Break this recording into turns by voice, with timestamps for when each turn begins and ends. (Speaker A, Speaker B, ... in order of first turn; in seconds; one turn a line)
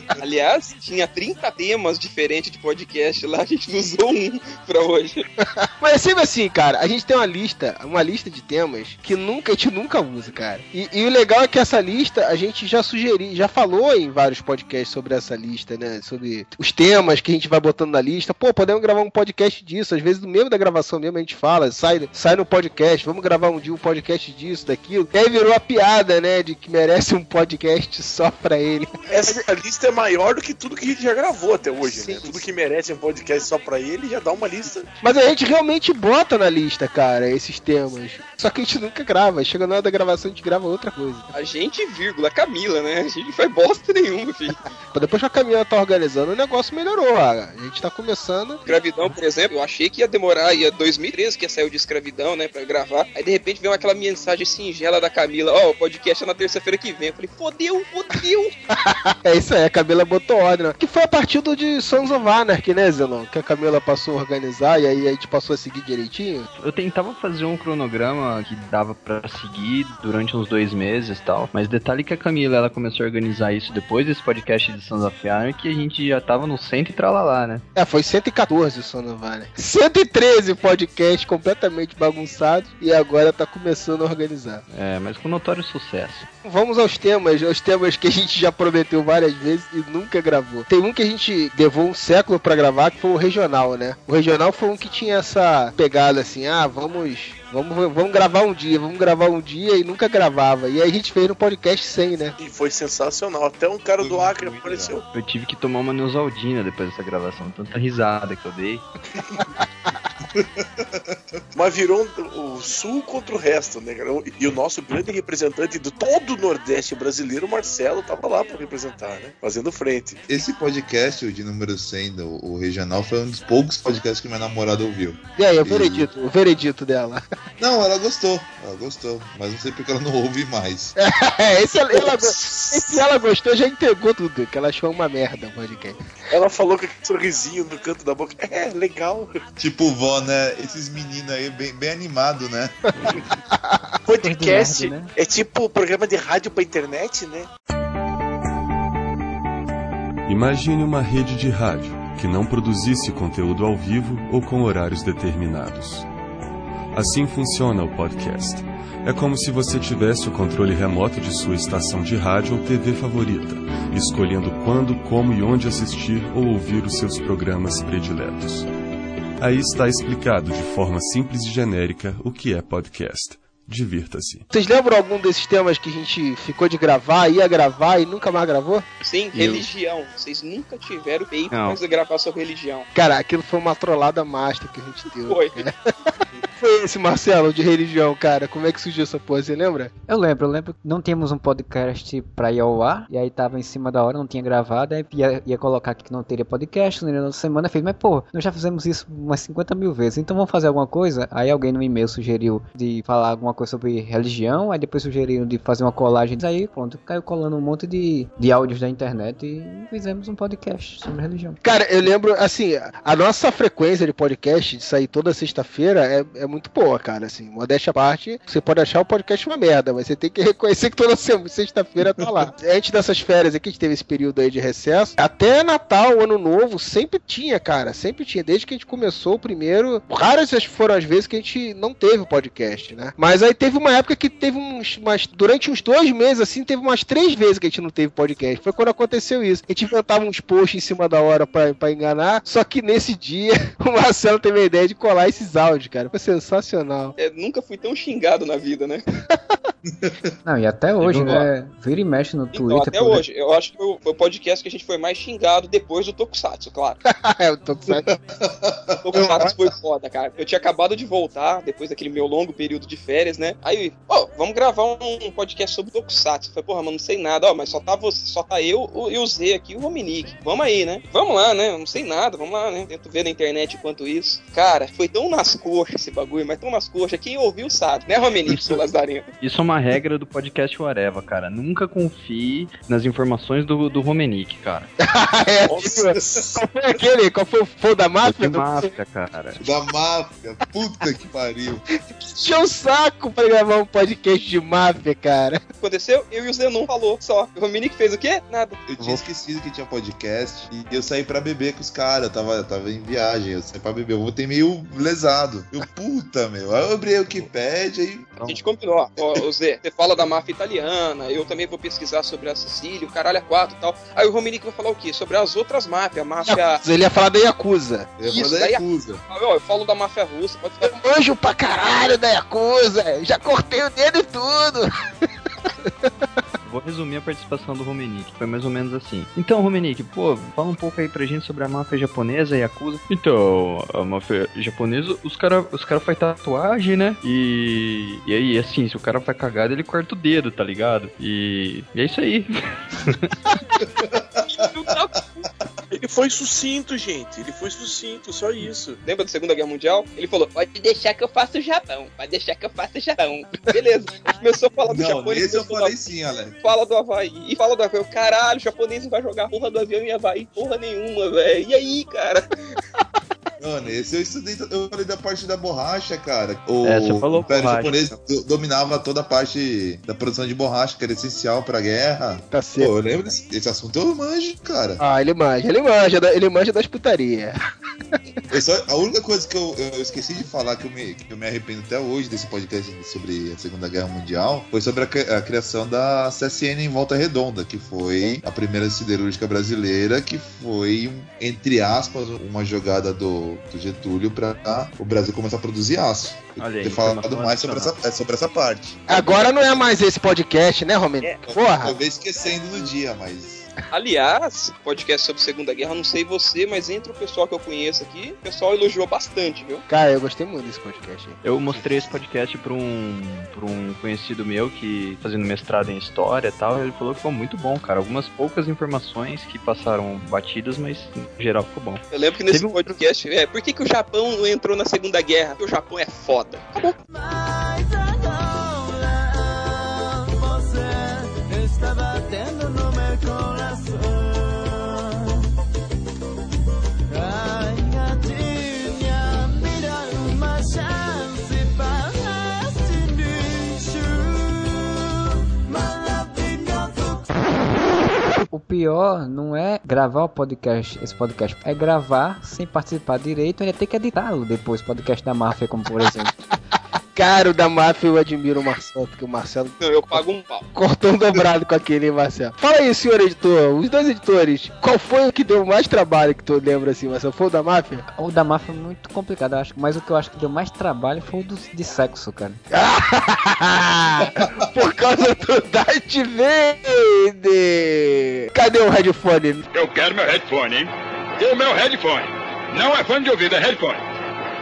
Speaker A: 0.2-5.2
Speaker B: 5.8-29.1
Speaker C: 29.1-34.9
Speaker B: 31.8-32.4
Speaker B: 35.0-41.2
Speaker A: 41.3-44.6
Speaker B: 44.9-48.6
Speaker A: 48.7-58.5
Speaker B: 58.9-66.5
Speaker D: 66.6-77.6
Speaker B: 77.8-84.6
Speaker D: 84.7-86.2
Speaker B: 86.4-102.3
Speaker C: 102.4-105.0
Speaker E: 104.0-105.0
Speaker D: 105.1-108.8
Speaker E: 110.4-111.4
Speaker C: 111.5-120.2
Speaker E: 120.3-126.1
Speaker B: 125.4-127.2
Speaker E: 127.6-130.9
Speaker B: 131.0-136.0
Speaker C: 132.0-133.0
Speaker C: 136.3-139.3
Speaker E: 139.6-142.8
Speaker B: 143.0-143.6
Speaker C: 144.1-147.5
Speaker F: 144.2-145.1
Speaker G: 150.2-156.1
Speaker G: 156.9-168.7
Speaker G: 169.4-174.4
Speaker B: 174.5-178.8
Speaker A: 179.0-182.9
Speaker B: 179.4-179.6
Speaker D: 181.5-181.8
Speaker B: 182.9-185.7
Speaker A: 185.3-185.5
Speaker B: 186.6-189.9
Speaker F: 190.1-211.6
Speaker B: 211.6-247.1
Speaker A: 247.2-249.0
Speaker E: 249.9-250.3
Speaker F: 250.4-253.2
Speaker D: 251.0-251.5
Speaker A: 252.5-257.0
Speaker B: 257.1-258.0
Speaker E: 257.9-259.5
Speaker A: 259.0-279.2
Speaker D: 279.4-284.9
Speaker B: 285.0-288.9
Speaker C: 285.7-286.5
Speaker E: 285.8-286.4
Speaker D: 288.2-289.6
Speaker E: 289.6-291.8
Speaker B: 292.2-295.6
Speaker A: 295.8-298.9
Speaker E: 298.9-308.3
Speaker A: 308.4-316.8
Speaker B: 316.4-318.1
Speaker E: 318.2-319.2
Speaker A: 318.3-320.9
Speaker B: 320.8-324.9
Speaker D: 326.6-343.3
Speaker E: 344.0-344.6
Speaker A: 344.5-345.1
Speaker C: 345.9-349.0
Speaker A: 349.0-355.9
Speaker E: 354.9-356.6
Speaker A: 356.6-362.5
Speaker E: 363.6-375.0
Speaker D: 366.8-368.1
Speaker B: 372.5-372.9
Speaker B: 375.0-377.6
Speaker E: 378.5-399.0
Speaker D: 396.6-398.0
Speaker B: 399.1-402.0
Speaker A: 399.1-399.4
Speaker E: 401.5-403.6
Speaker A: 403.9-409.8
Speaker B: 409.9-412.0
Speaker D: 411.4-423.0
Speaker A: 422.1-426.9
Speaker H: 427.8-428.6
Speaker H: 430.5-434.0
Speaker H: 437.1-442.1
Speaker H: 442.9-444.0
Speaker H: 445.7-447.1
Speaker F: 448.5-456.5
Speaker B: 457.1-460.2
Speaker A: 459.8-460.6
Speaker B: 460.7-468.0
Speaker F: 468.2-472.6
Speaker B: 472.7-479.6
Speaker I: 479.8-484.0